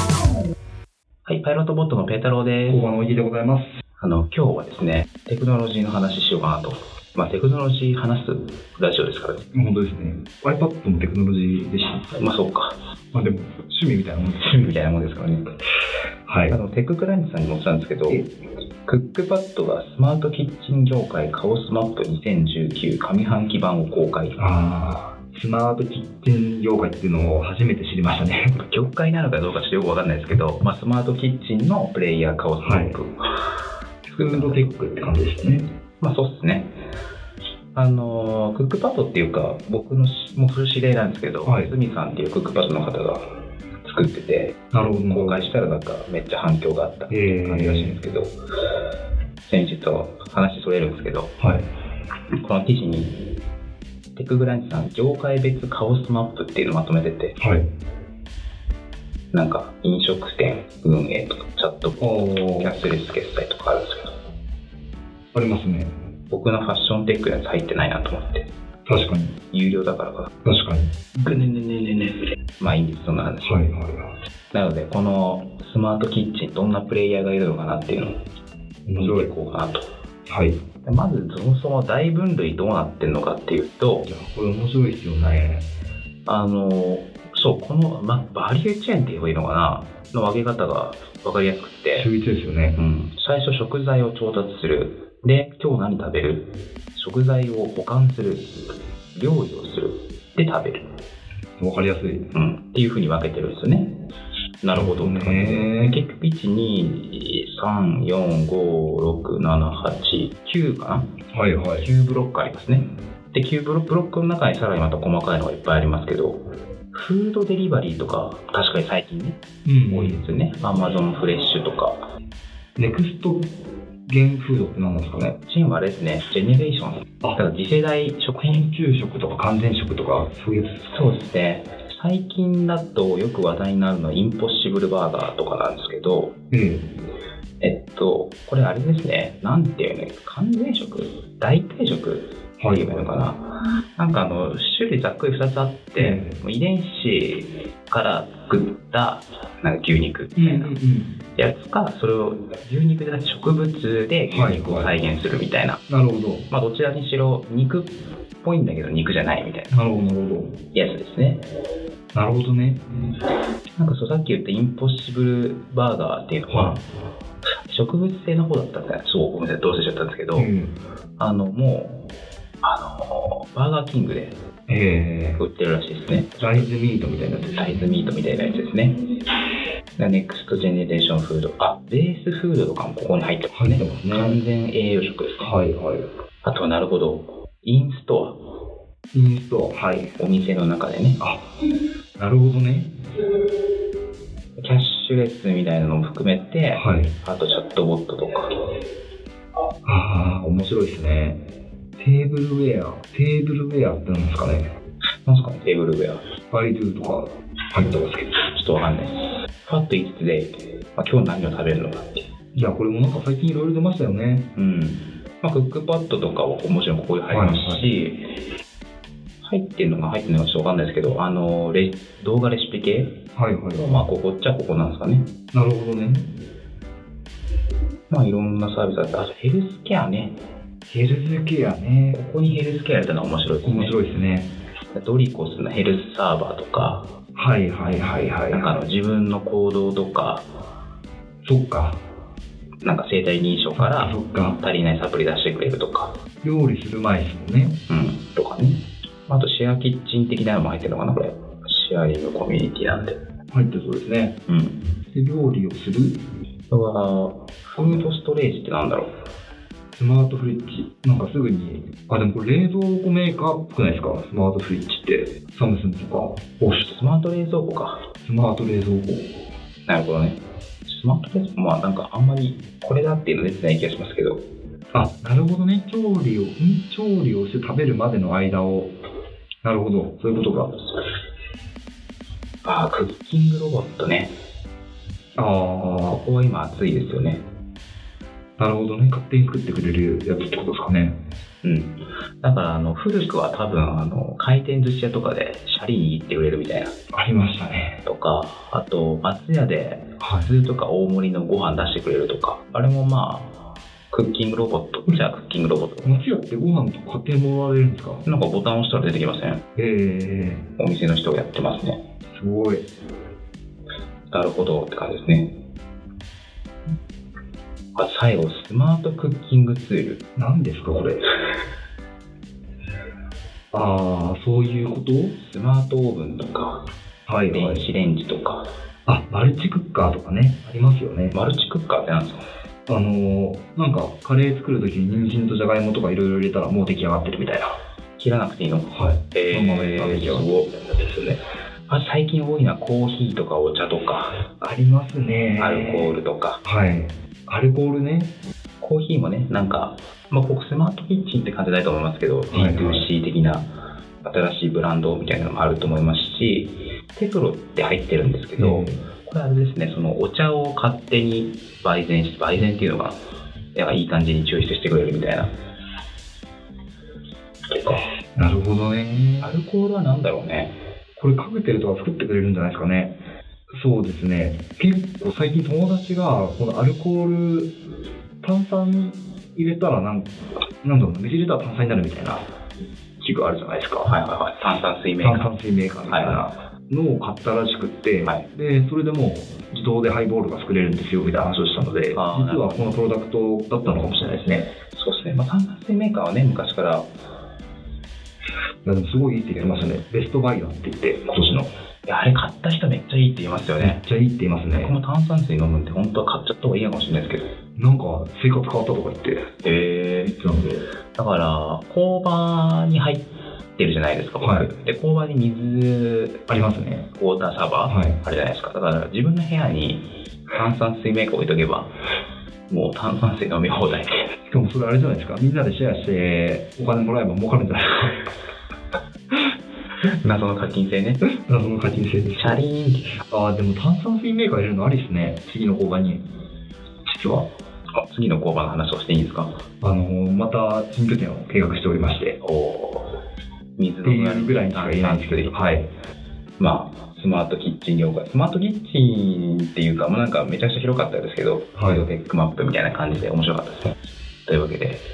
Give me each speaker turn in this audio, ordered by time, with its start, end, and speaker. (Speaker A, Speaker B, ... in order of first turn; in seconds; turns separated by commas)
Speaker A: 1.3-2.9, Speaker B: 2.7-3.7, Speaker A: 4.0-9.5, Speaker B: 9.5-12.2, Speaker A: 12.1-12.8, Speaker B: 13.1-14.4, Speaker A: 14.3-15.5, Speaker B: 16.3-16.6, Speaker A: 16.5-18.2, Speaker A: 18.9-24.4, Speaker B: 24.4-28.6, Speaker A: 28.6-33.2, Speaker B: 32.6-33.0, Speaker A: 34.1-34.7, Speaker B: 34.2-35.7, Speaker A: 36.0-36.7, Speaker A: 37.7-43.2, Speaker B: 41.5-41.7, Speaker A: 43.9-48.3, Speaker B: 44.7-45.5, Speaker B: 47.1-48.0, Speaker A: 49.5-51.4, Speaker B: 51.4-51.7, Speaker A: 52.4-53.2, Speaker A: 54.1-57.4, Speaker B: 57.4-57.7, Speaker A: 59.3-64.1, Speaker B: 62.0-62.8, Speaker B: 65.3-65.9, Speaker A: 66.3-68.5, Speaker B: 68.9-69.4, Speaker A: 69.5-70.3, Speaker B: 70.5-71.1, Speaker A: 71.2-73.6, Speaker B: 73.4-74.1, Speaker A: 74.5-78.2, Speaker B: 78.9-79.3, Speaker A: 79.0-79.9, Speaker B: 80.3-80.6, Speaker A: 80.8-84.1, Speaker B: 84.0-85.7, Speaker A: 86.3-92.1, Speaker B: 92.0-92.8, Speaker A: 92.8-98.5, Speaker A: 99.1-100.8, Speaker B: 101.6-102.3, Speaker A: 102.3-104.0, Speaker A: 104.6-111.1, Speaker B: 104.7-106.0, Speaker B: 111.3-111.9, Speaker A: 111.8-122.0, Speaker B: 119.7-120.2, Speaker B: 122.8-123.5, Speaker B: 124.1-125.3, Speaker A: 125.2-128.6, Speaker B: 128.4-130.8, Speaker A: 130.8-136.3, Speaker B: 136.5-136.9, Speaker A: 137.6-150.8, Speaker B: 142.6-143.1, Speaker B: 146.0-146.4, Speaker B: 150.4-151.2, Speaker A: 151.4-155.8, Speaker B: 154.3-154.9, Speaker B: 155.9-156.5, Speaker A: 156.5-159.8, Speaker B: 159.7-160.6, Speaker A: 160.7-161.4, Speaker B: 162.1-162.8, Speaker A: 163.8-166.8, Speaker B: 166.5-166.8, Speaker A: 167.6-170.5, Speaker B: 170.3-170.8, Speaker A: 171.2-172.1, Speaker A: 172.6-174.4, Speaker B: 174.7-175.4, Speaker A: 175.4-176.7, Speaker B: 176.4-177.8, Speaker A: 177.5-179.0, Speaker A: 180.0-185.5, Speaker B: 183.5-184.4, Speaker B: 185.4-186.1, Speaker A: 186.4-188.4, Speaker B: 189.1-190.2, Speaker A: 190.2-191.2, Speaker B: 191.2-191.4, Speaker B: 192.2-192.9, Speaker A: 194.6-198.5, Speaker B: 196.7-197.1, Speaker B: 199.8-201.4, Speaker B: 202.0-204.7, Speaker A: 205.2-206.2, Speaker B: 206.5-208.4, Speaker A: 208.5-212.2, Speaker B: 212.6-214.5, Speaker A: 214.6-218.4, Speaker B: 217.3-217.8, Speaker A: 219.4-225.3, Speaker B: 223.4-224.1, Speaker B: 225.5-226.3, Speaker A: 228.1-230.3, Speaker B: 230.9-232.2, Speaker A: 232.1-234.0, Speaker B: 233.6-234.5, Speaker A: 234.9-237.1, Speaker B: 237.4-238.8, Speaker A: 238.5-240.4, Speaker B: 241.4-242.0, Speaker A: 242.8-246.2, Speaker B: 243.8-244.6, Speaker B: 246.4-247.8, Speaker A: 247.9-253.2, Speaker B: 253.5-254.4, Speaker A: 254.5-254.8, Speaker B: 255.1-256.2, Speaker A: 256.7-259.1, Speaker B: 257.8-258.1, Speaker B: 260.0-267.0, Speaker A: 266.8-268.0, Speaker B: 268.2-269.3, Speaker A: 269.9-274.4, Speaker B: 274.9-278.9, Speaker B: 279.6-280.8, Speaker A: 282.6-284.3, Speaker B: 285.4-286.2, Speaker A: 286.1-287.4, Speaker B: 288.6-291.2, Speaker A: 291.6-296.9, Speaker B: 297.1-298.0, Speaker A: 298.0-303.6, Speaker B: 300.2-300.5, Speaker A: 304.1-306.2, Speaker B: 306.0-308.2, Speaker A: 308.2-309.6, Speaker B: 309.8-310.7, Speaker A: 310.8-312.0, Speaker B: 312.3-312.9, Speaker A: 314.3-315.6, Speaker A: 317.9-320.2, Speaker B: 320.4-321.2, Speaker B: 323.7-325.4, Speaker A: 325.4-326.8, Speaker B: 327.3-327.9, Speaker A: 327.5-328.6, Speaker B: 329.1-331.4, Speaker A: 331.3-332.4, Speaker B: 332.9-337.7, Speaker A: 338.2-344.4, Speaker B: 338.9-340.5, Speaker B: 344.6-348.3, Speaker A: 345.6-346.6, Speaker A: 348.8-353.7, Speaker B: 352.5-353.1, Speaker A: 354.2-363.2, Speaker B: 358.6-359.0, Speaker A: 363.7-365.5, Speaker A: 367.7-368.0, Speaker B: 368.4-369.6, Speaker A: 369.4-370.8, Speaker B: 371.2-373.2, Speaker B: 373.7-377.7, Speaker B: 378.4-380.3, Speaker B: 380.8-382.4, Speaker B: 383.2-384.1, Speaker A: 384.1-385.5, Speaker B: 385.2-394.7, Speaker A: 386.1-386.4, Speaker A: 392.1-393.0, Speaker A: 394.9-397.1, Speaker B: 398.8-401.7, Speaker A: 402.1-404.0, Speaker B: 403.8-405.0, Speaker A: 404.8-407.5, Speaker B: 407.8-409.5, Speaker A: 409.6-413.2, Speaker A: 413.8-416.4, Speaker B: 414.4-414.7, Speaker B: 416.5-417.1, Speaker A: 417.1-421.9, Speaker B: 417.9-418.2, Speaker A: 422.7-424.3, Speaker B: 424.5-428.3, Speaker A: 430.0-431.2, Speaker B: 431.2-432.6, Speaker A: 432.4-433.2, Speaker B: 433.3-436.2, Speaker B: 437.1-437.5, Speaker A: 438.0-439.5, Speaker B: 439.8-442.4, Speaker A: 442.4-443.1, Speaker A: 443.8-445.6, Speaker B: 444.0-445.9, Speaker A: 446.6-455.0, Speaker B: 451.8-452.1